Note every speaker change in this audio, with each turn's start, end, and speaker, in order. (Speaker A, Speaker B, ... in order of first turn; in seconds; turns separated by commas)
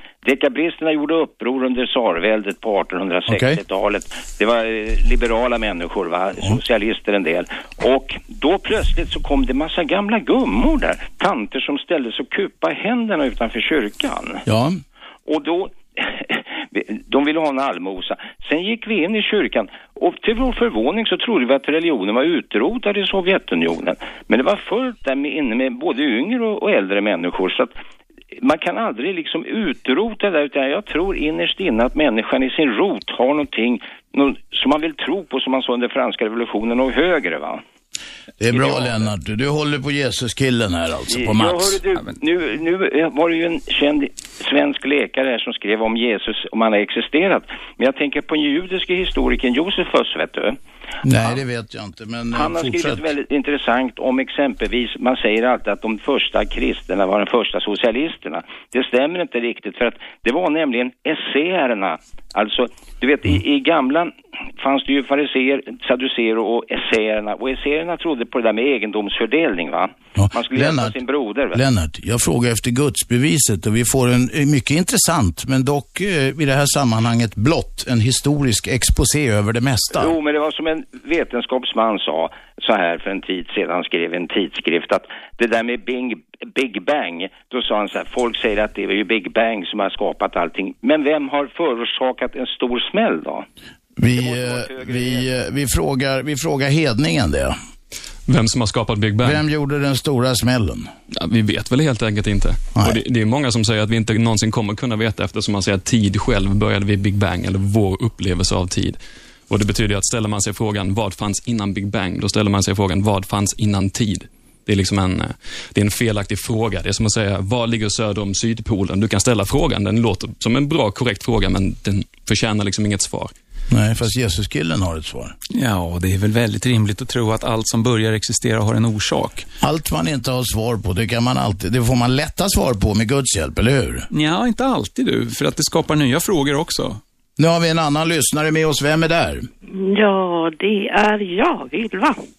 Speaker A: 0.2-14.4, Speaker B: 3.3-3.6, Speaker B: 14.4-14.8, Speaker A: 15.3-27.7, Speaker A: 28.4-37.6, Speaker B: 38.4-41.8, Speaker A: 41.1-50.6, Speaker C: 41.9-42.2, Speaker B: 51.0-53.0, Speaker A: 52.3-71.6, Speaker B: 70.2-70.9, Speaker B: 71.5-80.1, Speaker A: 80.0-93.5, Speaker B: 94.0-97.5, Speaker A: 94.2-95.2, Speaker D: 98.3-99.4, Speaker B: 99.2-100.9, Speaker D: 101.1-123.3, Speaker B: 123.7-125.3, Speaker C: 125.5-129.5, Speaker B: 129.6-134.1, Speaker C: 134.1-137.0, Speaker B: 137.4-139.5, Speaker E: 139.7-142.2